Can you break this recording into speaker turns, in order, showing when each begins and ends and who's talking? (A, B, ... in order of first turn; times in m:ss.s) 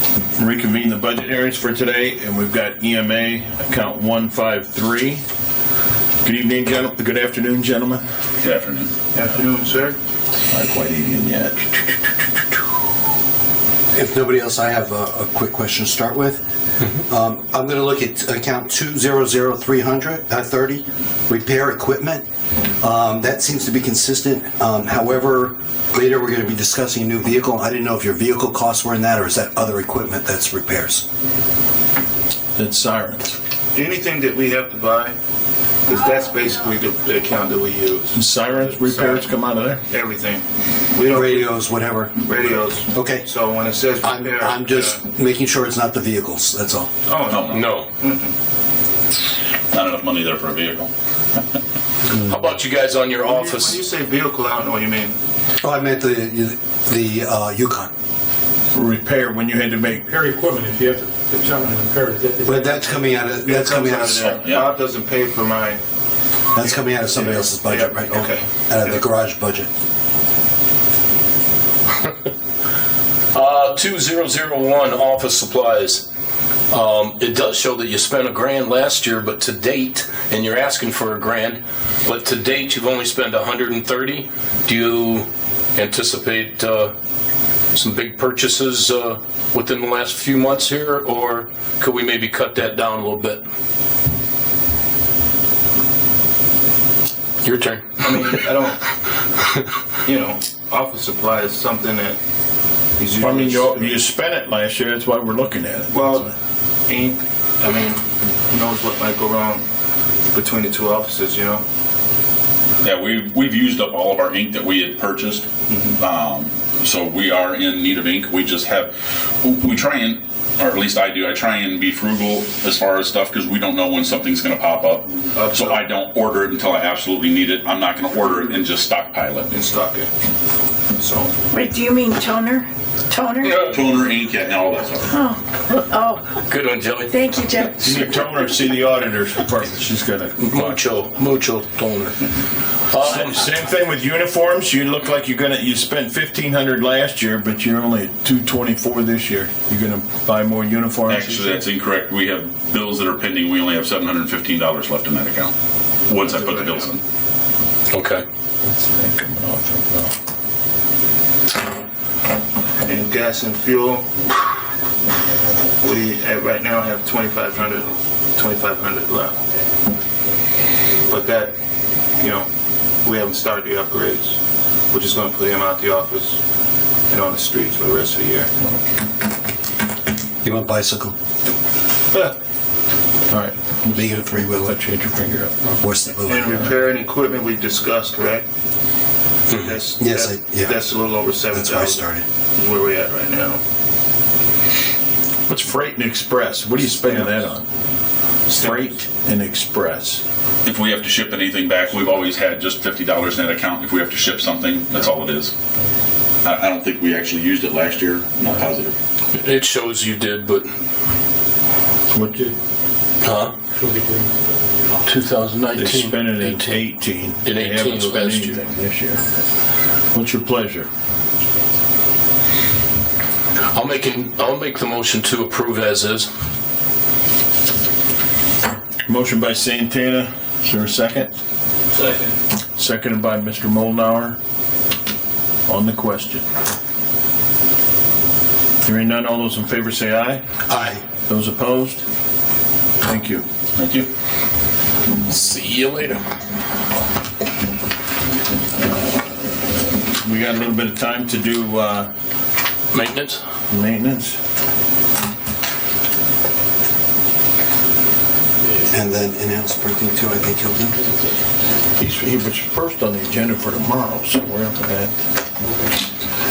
0:00.4-0:05.2 A
0:06.2-0:08.0 A
0:08.4-0:09.0 B
0:09.1-0:10.0 C
0:10.5-0:12.4 A
0:13.9-0:16.4 D
0:16.9-0:22.2 D
0:22.8-0:31.0 D
0:32.6-0:33.4 A
0:33.7-0:35.2 C
0:35.8-0:39.3 C
0:38.1-0:39.8 A
0:39.9-0:41.6 C
0:41.1-0:42.3 D
0:42.2-0:45.0 C
0:42.9-0:43.3 D
0:44.0-0:46.9 D
0:47.1-0:48.3 C
0:47.3-0:47.6 B
0:47.5-0:47.9 E
0:49.7-0:50.9 B
0:52.1-0:53.8 E
0:53.2-0:55.2 C
0:55.6-0:57.9 D
0:58.7-1:00.1 A
1:00.1-1:03.1 F
1:02.4-1:04.4 D
1:03.4-1:05.8 C
1:04.2-1:04.7 B
1:06.5-1:09.7 D
1:06.6-1:09.0 C
1:13.3-1:16.0 E
1:16.7-1:26.9 E
1:27.7-1:33.4 E
1:37.4-1:38.4 E
1:38.0-1:38.9 C
1:40.0-1:42.2 C
1:43.0-1:44.0 C
1:43.2-1:46.3 A
1:45.9-1:46.3 C
1:46.9-1:49.6 C
1:50.3-1:51.6 C
1:52.8-1:55.5 B
1:55.7-1:56.0 C
1:56.0-2:09.5 B
2:05.3-2:05.9 C
2:09.5-2:10.1 C
2:11.0-2:11.3 C
2:11.5-2:13.5 G
2:11.5-2:13.4 F
2:13.4-2:15.4 B
2:15.9-2:16.2 G
2:16.3-2:17.2 E
2:17.1-2:17.6 G
2:17.6-2:20.8 A
2:20.4-2:22.2 E
2:22.9-2:23.4 E
2:23.0-2:31.6 A
2:31.1-2:35.5 B
2:36.0-2:37.0 B
2:36.1-2:36.9 C
2:37.9-2:38.2 E
2:38.6-2:40.1 A
2:42.8-2:44.3 C
2:45.8-2:49.4 C
2:51.1-2:51.6 C
2:52.2-2:52.5 C
2:53.0-2:54.4 C
2:54.9-2:56.4 C
2:57.1-2:58.5 C
3:00.4-3:01.1 D
3:03.3-3:05.7 A
3:03.9-3:04.7 D
3:05.8-3:06.5 D
3:06.3-3:08.4 C
3:09.5-3:12.0 C
3:10.0-3:10.8 D
3:11.5-3:12.2 D
3:12.6-3:13.6 C
3:15.5-3:17.6 A
3:17.0-3:17.3 C
3:18.5-3:18.9 C
3:18.5-3:20.2 A
3:20.6-3:25.5 B
3:26.4-3:29.0 B
3:29.3-3:30.7 E
3:32.1-3:32.6 A
3:33.2-3:33.5 E
3:33.8-3:34.3 F
3:35.0-3:36.8 E
3:35.8-3:39.2 A
3:37.4-3:38.6 E
3:40.1-3:40.9 A
3:43.7-3:46.3 E
3:49.1-3:51.3 A
3:52.8-3:54.4 A
3:55.7-3:56.4 A
3:58.8-4:00.4 A
4:00.7-4:01.0 D
4:01.3-4:02.0 A
4:03.0-4:03.4 A
4:03.8-4:04.1 B
4:05.2-4:06.2 E
4:08.9-4:09.3 A
4:10.2-4:12.1 A
4:12.9-4:13.4 E
4:13.7-4:14.4 A
4:18.9-4:21.1 D
4:22.0-4:25.1 A